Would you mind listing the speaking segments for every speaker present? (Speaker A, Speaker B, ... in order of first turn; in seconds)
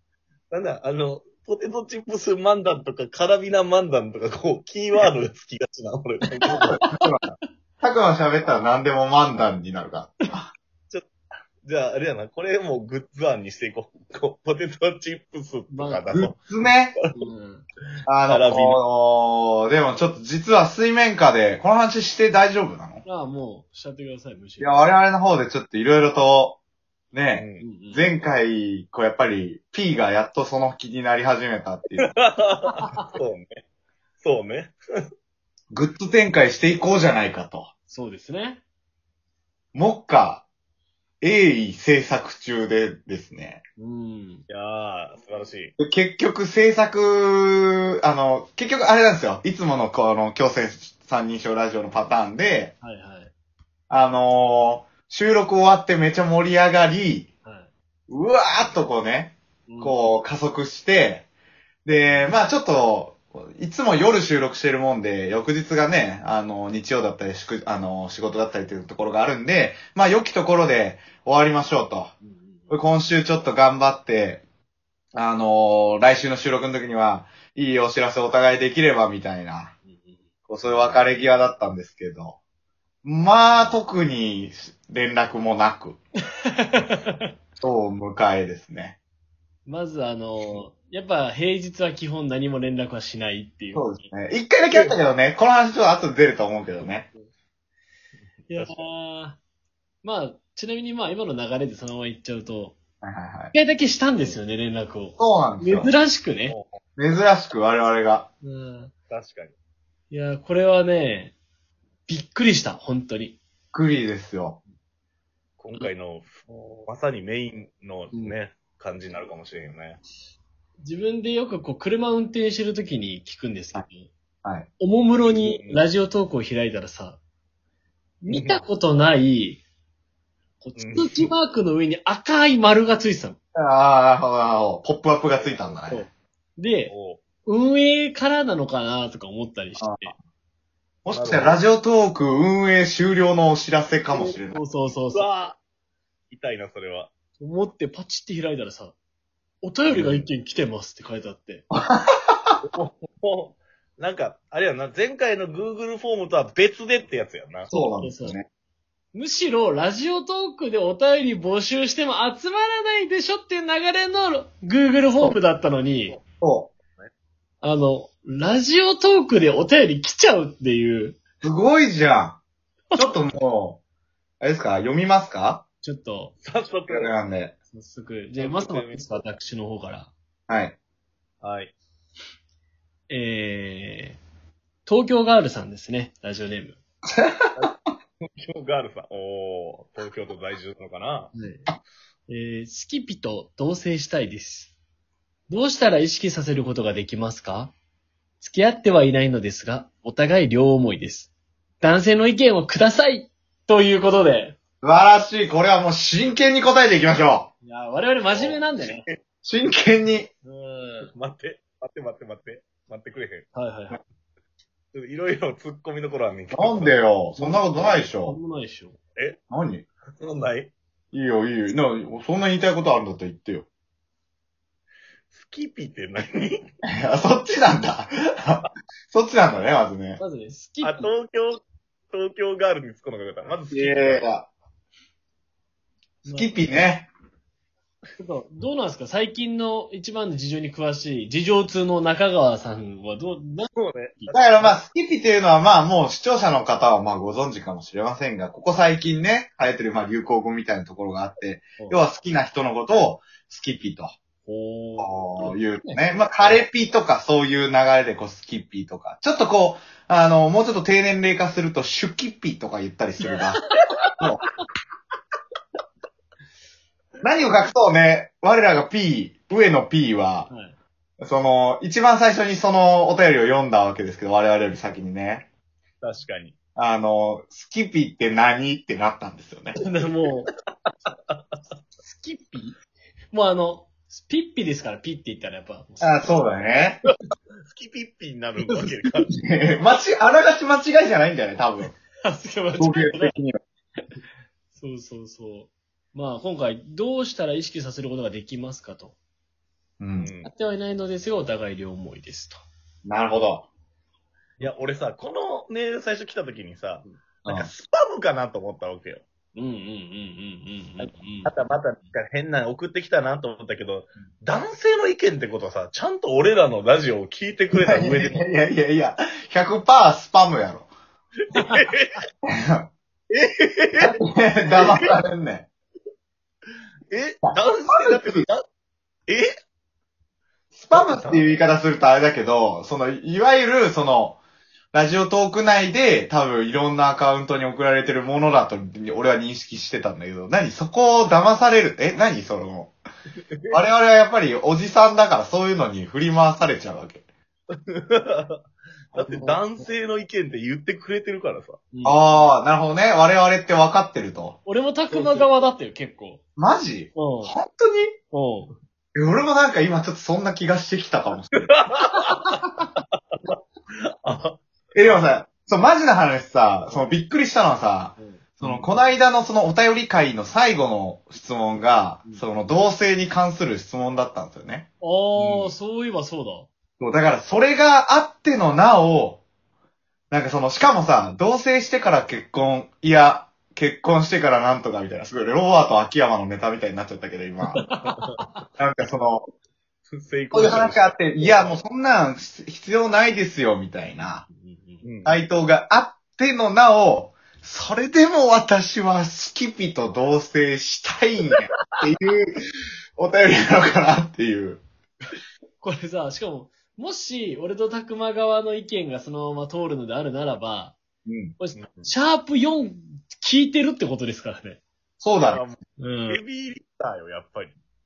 Speaker A: 0.5-6.8, 11.6-16.3, 18.3-18.8, 27.3-27.6, 32.0-33.6, 34.2-34.7, 44.5-45.7, 98.5-98.7, 106.5-106.8, 109.1-109.5, 115.6-120.0, 125.2-125.8, 128.2-128.6, 130.8-131.3, 135.3-135.6, 136.9-137.2, 141.1-141.6, 145.1-145.6, 146.3-147.1, 152.7-157.7, 176.4-177.1, 178.4-179.2, 181.4-181.7, 187.6-191.3, 208.3-209.2, 211.1-213.5, 214.9-217.0, 220.2-220.7, 225.3-226.6, 230.8-234.2, 243.8-244.6, 276.0-276.5, 281.1-281.4, 287.6-289.3, 300.2-300.5, 304.6-309.2, 311.0-318.4, 321.5-322.1, 323.3-324.1, 324.7-325.1, 327.1-328.6, 330.9-331.5, 343.6-343.8, 347.7-348.6, 349.1-351.8, 361.5-362.6, 364.2-365.3, 388.0-388.4, 390.1-391.8, 395.0-395.4, 411.7-412.1, 415.4-417.7
Speaker B: 6.6-10.5, 16.1-17.0, 18.1-23.0, 24.6-26.6, 27.1-32.1, 35.7-37.7, 39.7-40.5, 41.2-43.6, 45.8-52.7, 53.9-57.3, 58.1-61.3, 61.8-72.1, 72.7-74.4, 75.1-79.7, 80.5-82.4, 83.0-86.0, 87.6-89.0, 93.7-97.1, 103.0-103.5, 105.2-105.9, 107.0-108.3, 113.7-114.6, 133.5-136.1, 139.8-140.1, 141.0-144.6, 151.7-152.6, 157.7-158.4, 166.4-166.7, 171.4-172.4, 172.9-173.8, 174.4-175.6, 176.9-177.5, 180.5-180.8, 187.1-187.7, 204.8-207.5, 209.4-210.3, 216.5-218.4, 219.5-219.8, 221.1-223.7, 227.0-230.2, 233.7-234.5, 236.2-237.1, 244.3-254.1, 255.0-263.6, 267.2-270.5, 271.2-275.5, 276.8-279.8, 286.0-287.0, 288.9-291.9, 292.8-293.6, 300.0-300.3, 303.0-303.7, 307.4-307.7, 317.7-320.9, 322.5-322.9, 324.0-325.7, 327.4-328.5, 330.7-334.4, 334.9-342.9, 343.7-347.2, 352.0-354.6, 355.1-355.5, 356.6-358.1, 359.1-361.8, 364.9-375.8, 377.0-379.4, 380.3-387.9, 388.8-389.4, 390.5-394.5, 395.2-402.6, 403.2-404.8, 411.2-411.5, 415.2-415.6
Speaker C: 6.8-7.1, 15.7-16.1, 17.1-17.6, 23.0-25.0, 27.6-28.1, 32.7-33.1, 37.9-38.6, 43.8-44.5, 52.8-53.3, 57.4-57.7, 59.7-60.1, 62.0-62.3, 72.2-72.8, 79.8-80.3, 86.7-87.2, 89.6-94.0, 98.5-99.4, 100.0-102.8, 103.5-106.5, 108.4-108.9, 110.1-111.3, 112.1-113.4, 120.8-124.1, 124.8-127.2, 128.3-129.6, 130.6-133.4, 135.8-136.9, 137.4-140.1, 144.1-145.2, 147.4-149.0, 149.6-151.7, 157.7-158.4, 159.1-166.2, 167.6-171.2, 172.9-173.2, 175.8-176.3, 177.7-180.1, 183.1-184.2, 184.8-186.8, 191.3-191.7, 192.3-194.7, 195.5-197.7, 198.4-204.6, 207.6-209.0, 210.4-211.1, 213.5-214.0, 217.4-219.0, 230.2-231.1, 236.2-236.6, 238.2-244.7, 254.4-256.6, 263.3-263.7, 270.5-270.8, 279.8-280.5, 282.0-282.8, 283.3-286.5, 292.2-293.4, 294.7-299.1, 300.4-302.6, 309.5-311.5, 349.2-349.8, 351.9-352.4, 354.6-356.4, 357.1-357.5, 358.3-358.8, 368.2-368.8, 372.2-372.5, 375.0-376.7, 387.7-388.6, 394.5-395.0, 405.8-411.0, 411.6-414.8, 416.0-416.4